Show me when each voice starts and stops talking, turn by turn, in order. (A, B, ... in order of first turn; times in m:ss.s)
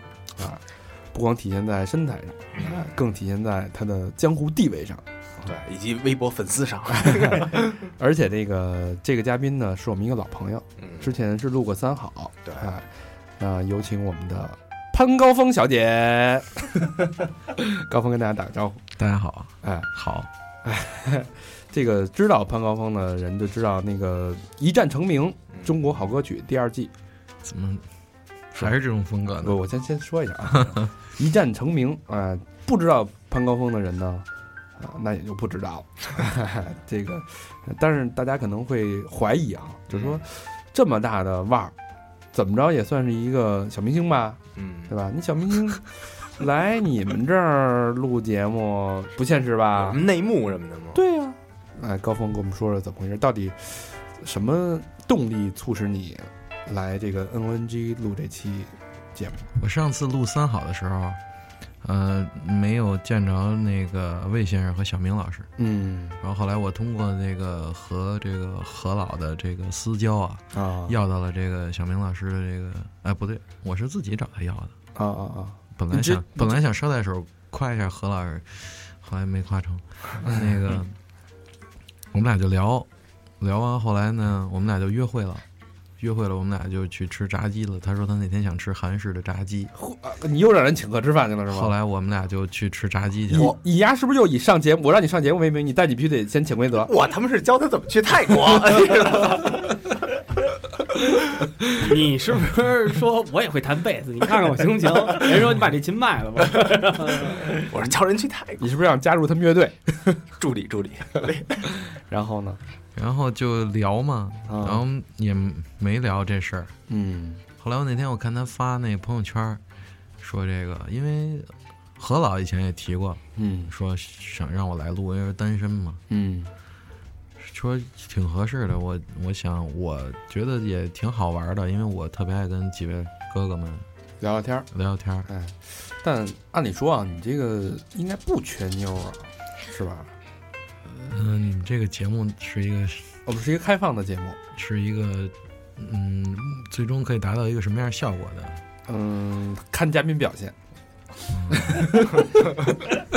0:00.3-0:05.5 A
0:02.6-0:02.8 B
0:05.4-0:07.8 B
0:06.9-0:18.8 A
0:10.8-0:11.1 B
0:19.0-0:20.3 C
0:19.6-0:19.9 A
0:20.6-0:26.9 A
0:27.4-0:27.8 C
0:28.5-0:29.6 C
0:29.3-0:41.8 A
0:30.5-0:30.9 C
0:39.9-0:40.2 B
0:42.3-0:50.0 A
0:44.6-0:44.9 B
0:49.7-0:51.0 B
0:50.9-0:59.5 A
0:59.6-1:01.2 C
1:01.8-1:05.5 C
1:05.6-1:06.2 A
1:06.2-1:14.7 C
1:10.5-1:11.0 A
1:14.9-1:16.6 A
1:15.8-1:20.9 C
1:20.2-1:20.8 A
1:22.1-1:22.9 C
1:23.4-1:25.4 C
1:26.0-1:29.7 C
1:29.7-1:31.7 A
1:31.5-1:33.5 C
1:33.3-1:36.9 A
1:36.8-1:39.7 B
1:41.8-1:47.5 D
1:47.5-1:48.6 B
1:48.6-1:50.2 A
1:50.4-1:51.7 B
1:51.9-1:52.6 A
1:52.9-1:56.7 C
1:54.5-1:54.8 A
1:56.9-1:57.4 A
1:57.6-1:59.6 C
2:00.2-2:06.0 C
2:03.3-2:03.7 A
2:06.1-2:06.5 A
2:07.4-2:13.8 C
2:14.2-2:14.7 A
2:14.7-2:15.3 C
2:15.2-2:20.2 A
2:20.9-2:23.2 C
2:23.2-2:24.4 A
2:24.5-2:28.6 C
2:28.8-2:30.6 A
2:31.3-2:32.0 C
2:31.5-2:32.5 A